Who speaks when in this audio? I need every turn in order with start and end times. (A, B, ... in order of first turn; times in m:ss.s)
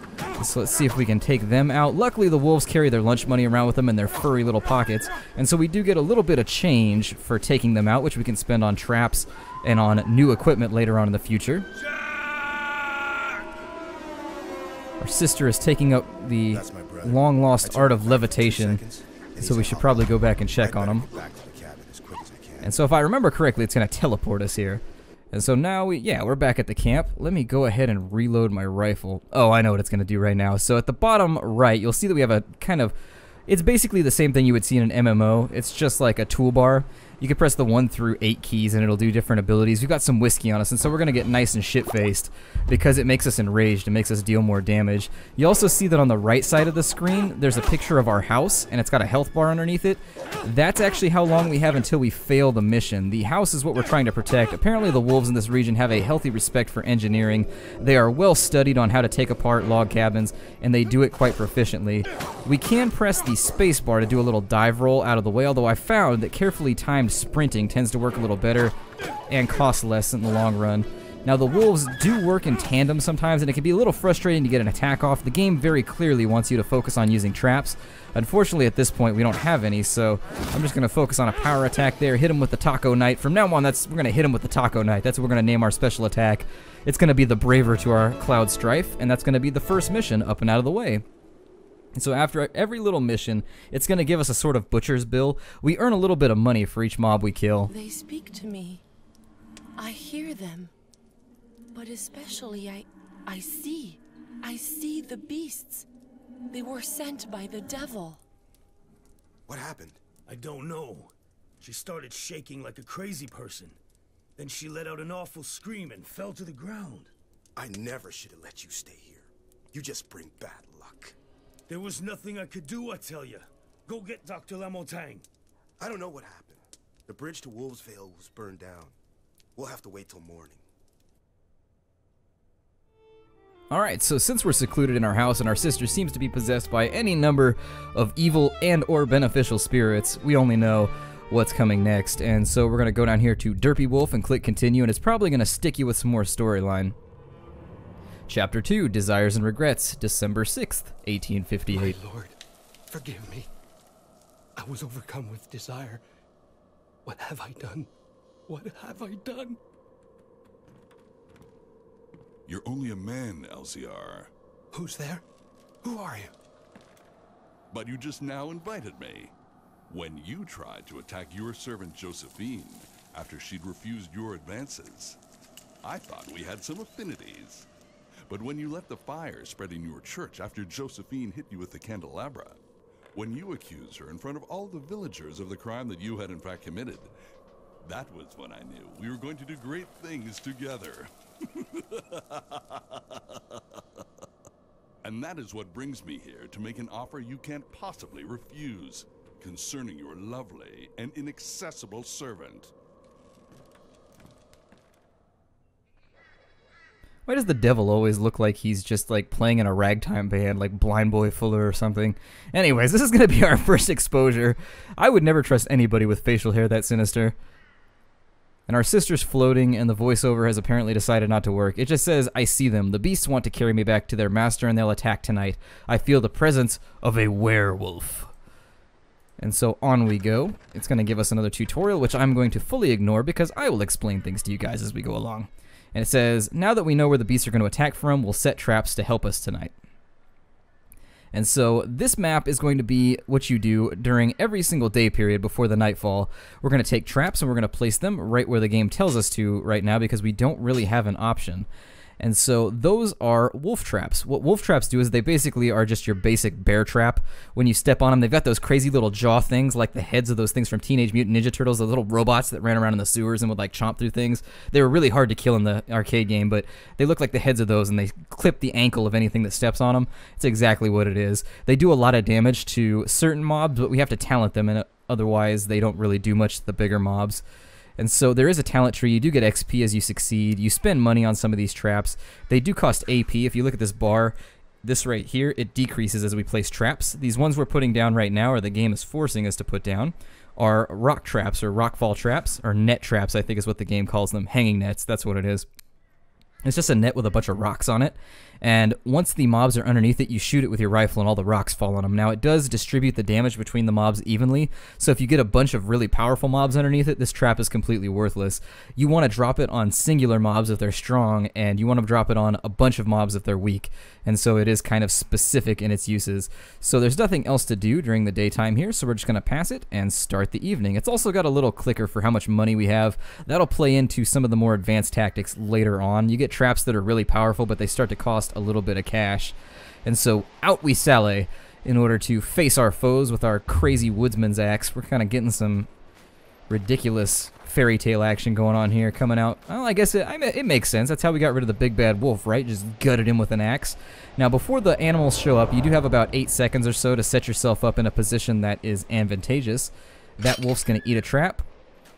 0:00.4-0:11.7 A
0:11.8-0:13.1 B
0:15.0-0:18.8 A
0:16.5-0:22.8 C
0:19.4-0:21.0 A
0:22.6-0:32.9 A
0:33.5-1:08.8 A
1:09.3-1:31.0 A
1:32.0-1:37.7 A
1:37.7-1:38.8 D
1:39.8-1:40.7 D
1:41.7-1:45.9 D
1:46.5-1:48.2 D
1:49.5-1:50.0 C
1:50.2-1:53.8 B
1:54.4-1:57.1 B
1:57.6-2:01.2 C
2:01.7-2:05.2 B
2:05.8-2:08.9 C
2:09.6-2:10.6 C
2:13.7-2:27.0 A
2:28.3-2:32.0 A
2:31.7-2:33.5 E
2:34.6-2:36.0 E
2:37.0-2:37.9 E
2:38.5-2:39.6 E
2:42.5-2:44.3 F
2:44.7-2:45.2 E
2:45.8-2:46.3 E
2:47.7-2:49.3 F
2:49.9-2:55.2 F
2:55.8-2:57.7 F
2:58.3-3:02.6 F
3:03.1-3:07.1 F
3:07.8-3:13.8 F
3:15.0-3:22.7 F
3:27.3-3:37.4 A
3:38.7-3:48.3 A
3:49.4-3:59.8 A
4:01.3-4:11.7 A
4:12.2-4:37.4 A
4:38.0-4:55.7 A
4:56.6-5:35.9 A
5:36.7-5:51.6 A